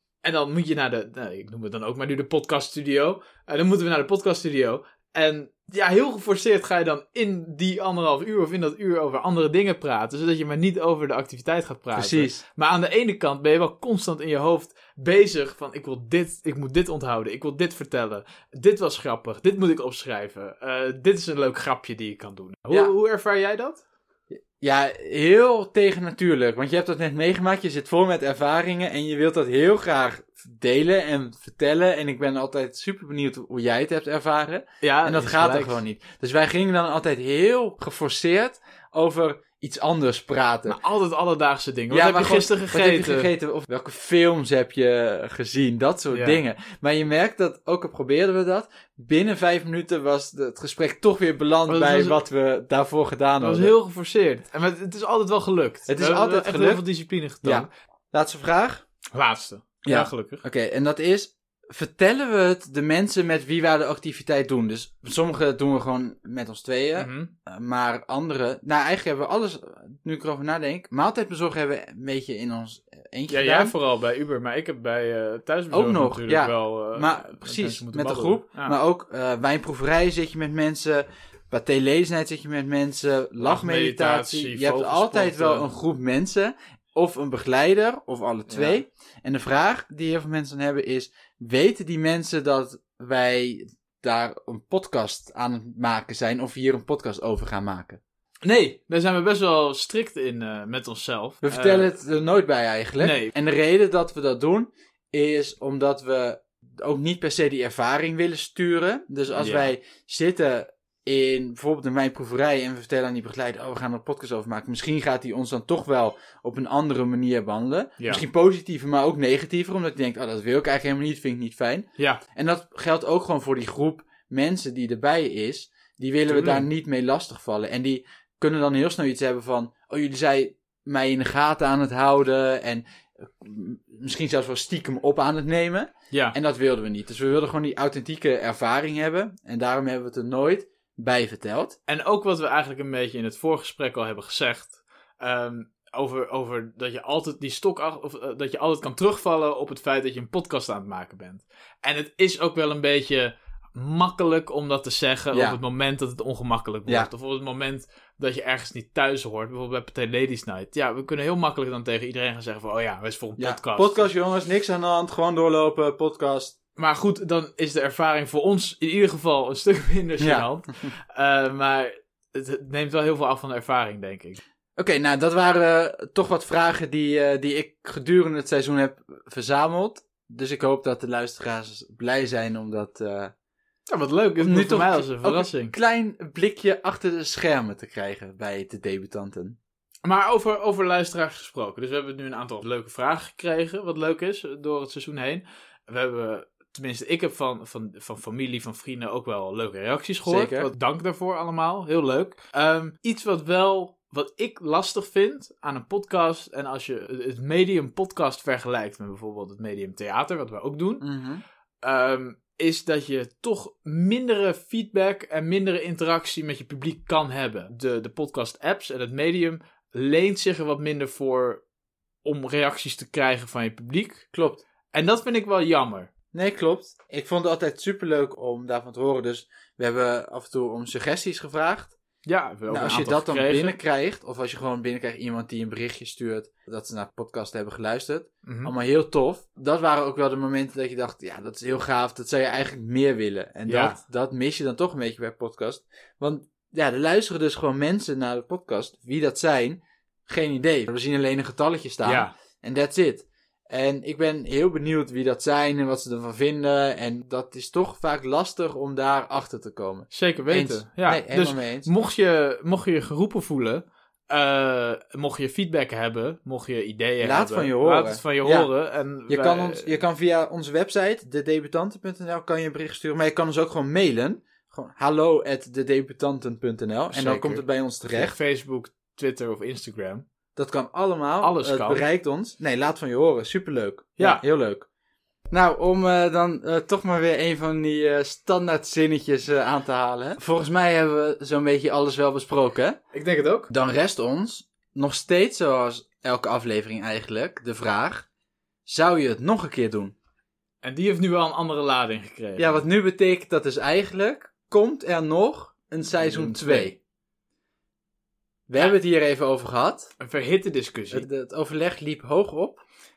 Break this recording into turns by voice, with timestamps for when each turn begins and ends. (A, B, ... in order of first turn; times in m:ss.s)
0:00.2-0:23.8 A
0:12.0-0:12.4 B
0:24.4-0:40.8 B
0:34.8-0:35.8 A
0:40.7-0:43.3 A
0:41.9-0:53.7 B
0:46.1-0:46.4 A
0:51.7-0:52.2 A
0:53.4-0:57.7 A
0:55.9-0:56.8 B
0:57.4-0:58.8 B
0:59.2-1:00.4 A
0:59.8-1:13.8 B
1:07.0-1:07.3 A
1:13.3-1:18.8 A
1:15.7-1:38.0 B
1:23.4-1:25.7 A
1:28.5-1:28.8 A
1:38.4-1:41.9 A
1:41.4-2:21.8 B
1:43.0-1:43.3 A
1:49.3-1:49.7 A
2:06.3-2:06.7 A
2:21.9-2:44.1 A
2:35.3-2:35.6 B
2:43.4-2:46.6 B
2:46.8-2:54.4 A
2:50.2-2:50.5 B
2:54.8-3:03.3 B
3:03.9-3:05.8 A
3:04.4-3:09.6 B
3:10.0-3:31.1 A
3:20.2-3:20.7 B
3:31.0-3:31.4 B
3:31.8-3:41.6 A
3:42.2-3:44.3 A
3:44.3-3:44.6 B
3:44.9-3:46.1 A
3:46.3-3:52.0 B
3:52.3-3:53.8 A
3:52.7-4:21.9 B
3:58.4-3:58.7 A
4:03.7-4:04.0 A
4:12.0-4:12.3 A
4:20.1-4:30.0 A
4:27.2-4:28.7 B
4:29.3-4:38.4 B
4:37.1-4:40.2 A
4:40.6-4:44.9 B
4:41.4-4:42.0 A
4:44.2-4:44.4 A
4:45.5-4:53.0 B
4:53.1-4:53.7 A
4:53.7-4:58.3 B
4:58.9-5:00.2 B
5:00.8-5:02.8 A
5:02.6-5:07.0 B
5:06.2-5:07.0 A
5:08.7-5:10.1 B
5:10.2-5:11.3 A
5:11.1-5:12.8 B